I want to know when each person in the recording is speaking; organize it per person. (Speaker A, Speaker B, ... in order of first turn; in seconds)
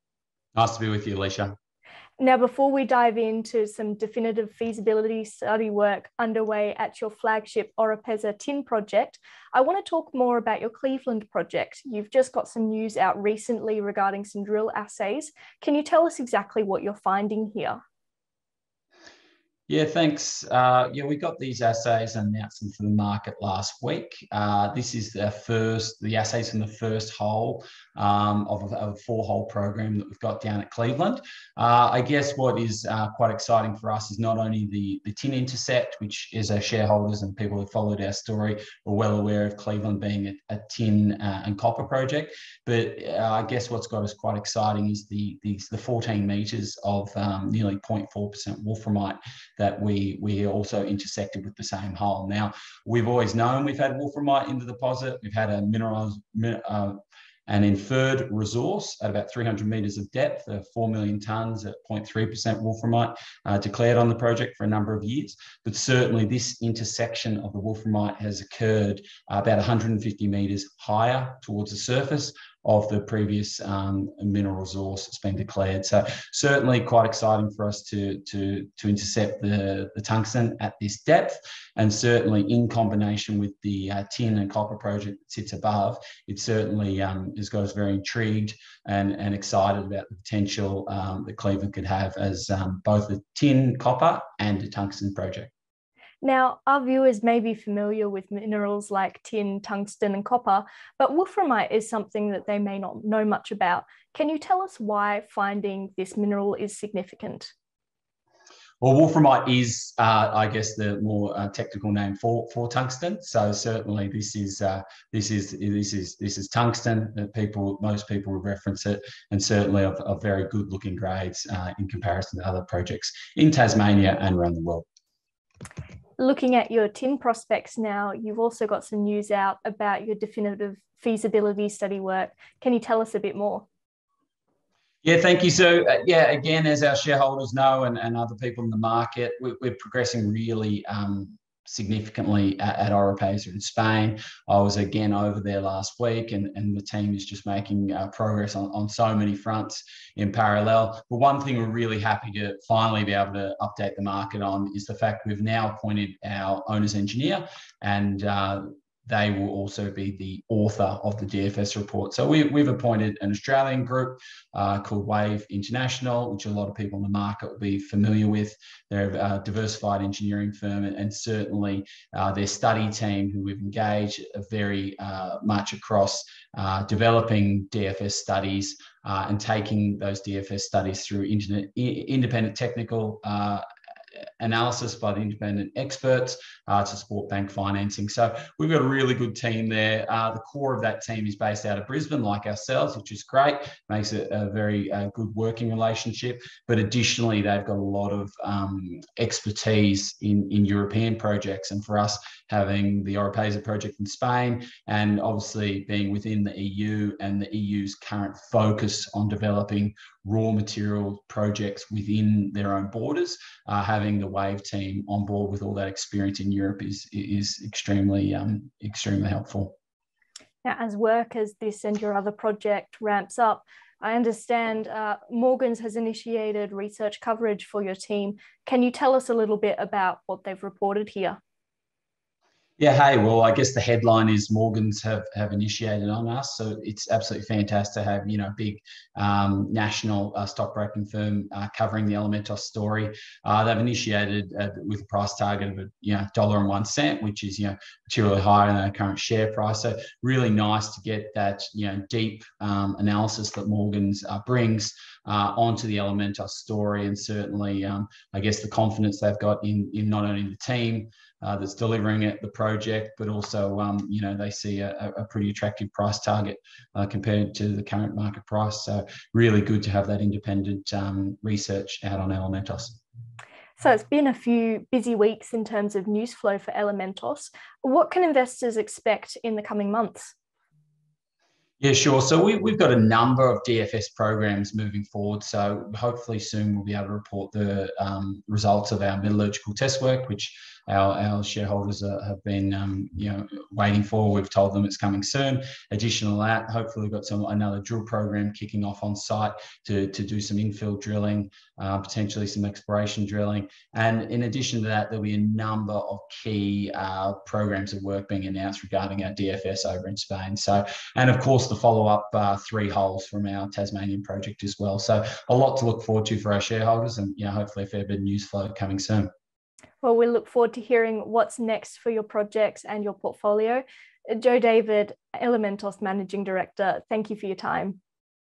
Speaker A: 0.6-1.5, 19.7-95.5, 108.8-124.9, 135.0-183.6, 184.4-219.7, 232.8-273.0, 281.8-319.3
Speaker B: 2.2-17.8, 96.2-107.5, 126.2-133.7, 220.6-231.4, 273.8-280.3, 320.0-328.0